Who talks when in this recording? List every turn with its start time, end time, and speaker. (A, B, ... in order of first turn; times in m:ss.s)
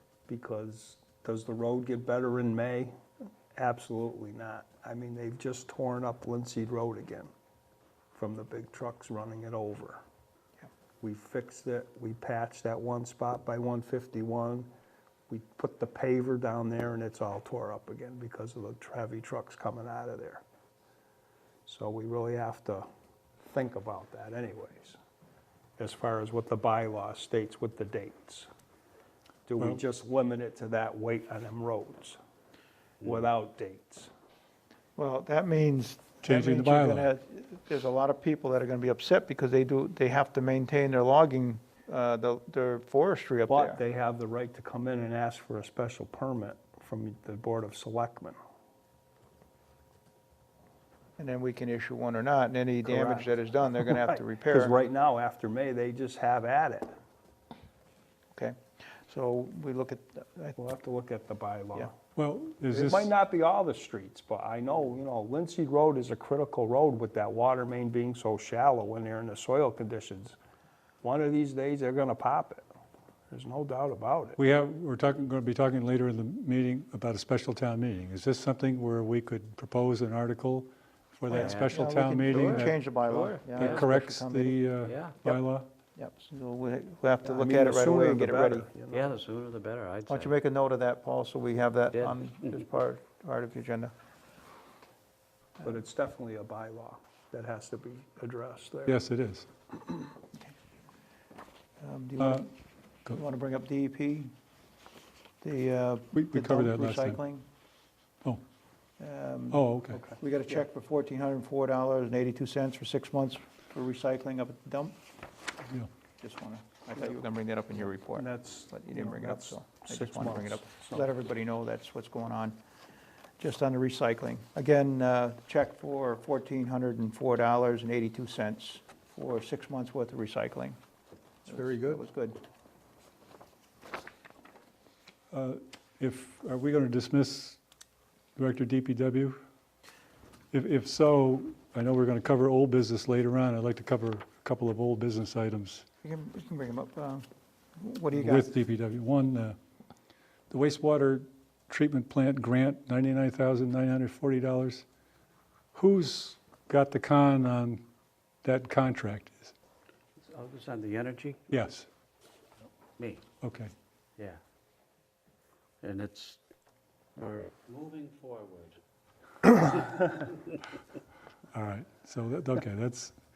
0:00.3-0:02.9 A
0:03.5-0:07.3 A
0:08.1-0:10.0 A
0:11.0-0:14.7 A
0:15.3-0:20.4 A
0:21.7-0:22.9 A
0:23.4-0:25.0 A
0:25.8-0:28.5 A
0:29.5-0:32.2 A
0:33.0-0:34.1 A
0:35.0-0:43.8 B
0:36.2-0:37.1 C
0:43.5-0:48.4 A
0:51.2-0:54.8 B
0:52.8-0:57.0 A
0:58.3-1:00.6 B
1:00.6-1:02.0 A
1:02.2-1:03.1 C
1:02.7-1:10.4 A
1:11.0-1:12.7 A
1:13.3-1:14.4 A
1:14.4-1:22.8 C
1:21.3-1:24.6 B
1:21.3-1:23.9 D
1:23.6-1:25.7 C
1:24.8-1:25.2 D
1:26.0-1:28.7 B
1:27.2-1:29.1 A
1:28.9-1:30.3 D
1:30.1-1:33.9 B
1:35.6-1:39.0 A
1:38.9-1:39.5 C
1:41.8-1:42.5 B
1:43.1-1:44.3 B
1:45.4-1:47.4 B
1:46.1-1:47.2 C
1:49.0-1:49.7 B
1:49.5-1:50.0 C
1:50.2-1:55.0 B
1:56.2-2:02.6 B
1:58.1-2:01.1 A
2:03.4-2:10.8 B
2:11.5-2:12.4 B
2:15.3-2:17.6 C
2:18.4-2:19.4 C
2:20.5-2:25.8 C
2:26.0-2:27.2 B
2:27.8-2:28.5 B
2:28.1-2:29.6 C
2:30.5-2:34.8 C
2:35.7-2:37.8 C
2:38.4-2:39.5 C
2:40.2-2:41.4 D
2:41.5-2:41.9 C
2:43.4-2:43.7 C
2:45.8-2:46.4 D
2:47.2-2:48.8 D
2:51.5-2:53.1 C